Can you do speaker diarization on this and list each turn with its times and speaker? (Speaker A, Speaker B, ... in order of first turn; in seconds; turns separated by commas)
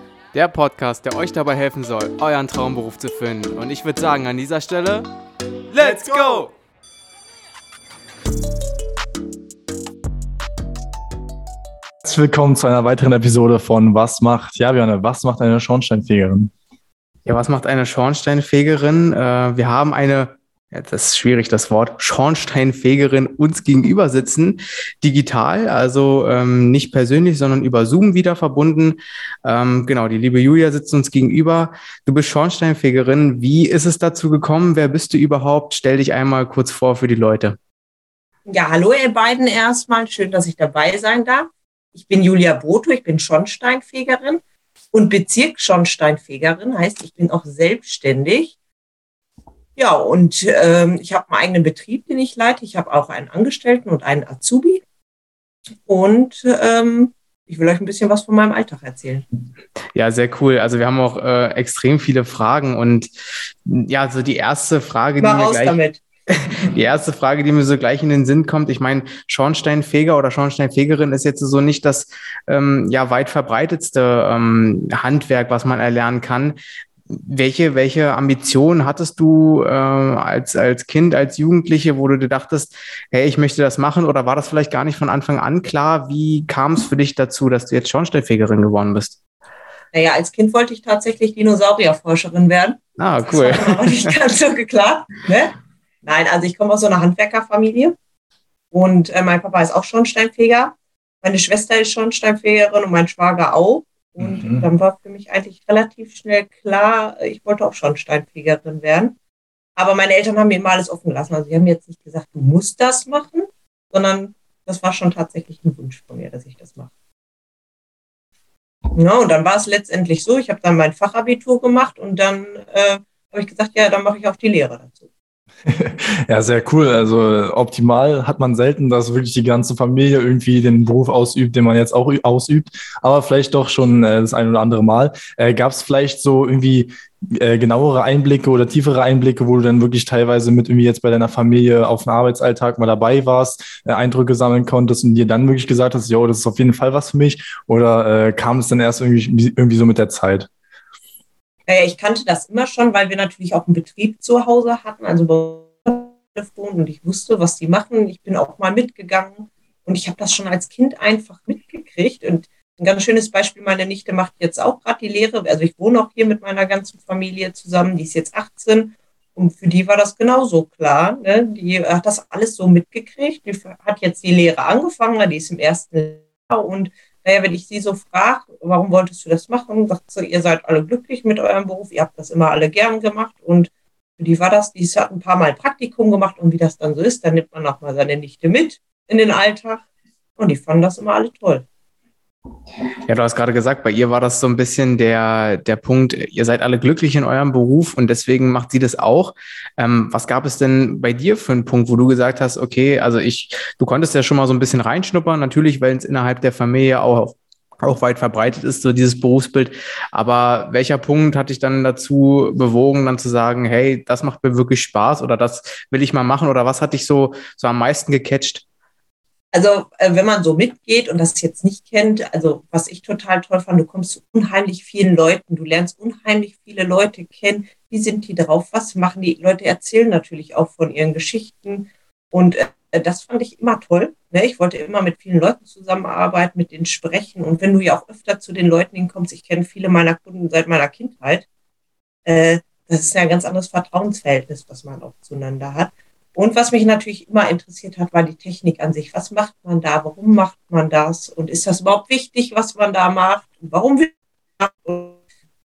Speaker A: 0.3-5.1, Speaker A: 5.7-6.5, Speaker B: 5.8-6.5, Speaker B: 12.0-16.5, Speaker A: 17.2-37.6, Speaker C: 38.5-48.5, Speaker C: 49.8-54.8, Speaker C: 55.9-59.2, Speaker A: 60.0-63.1, Speaker A: 63.6-65.8, Speaker C: 65.2-66.0, Speaker A: 66.3-76.6, Speaker A: 77.1-89.2, Speaker C: 89.9-95.5, Speaker A: 93.0-94.2, Speaker C: 96.0-98.0, Speaker C: 98.7-109.2, Speaker B: 104.2-104.7, Speaker C: 109.8-116.9, Speaker C: 118.9-125.1, Speaker B: 125.7-150.5, Speaker C: 151.7-189.8, Speaker C: 190.4-191.7, Speaker A: 193.1-218.6, Speaker C: 219.5-241.5, Speaker C: 242.2-255.2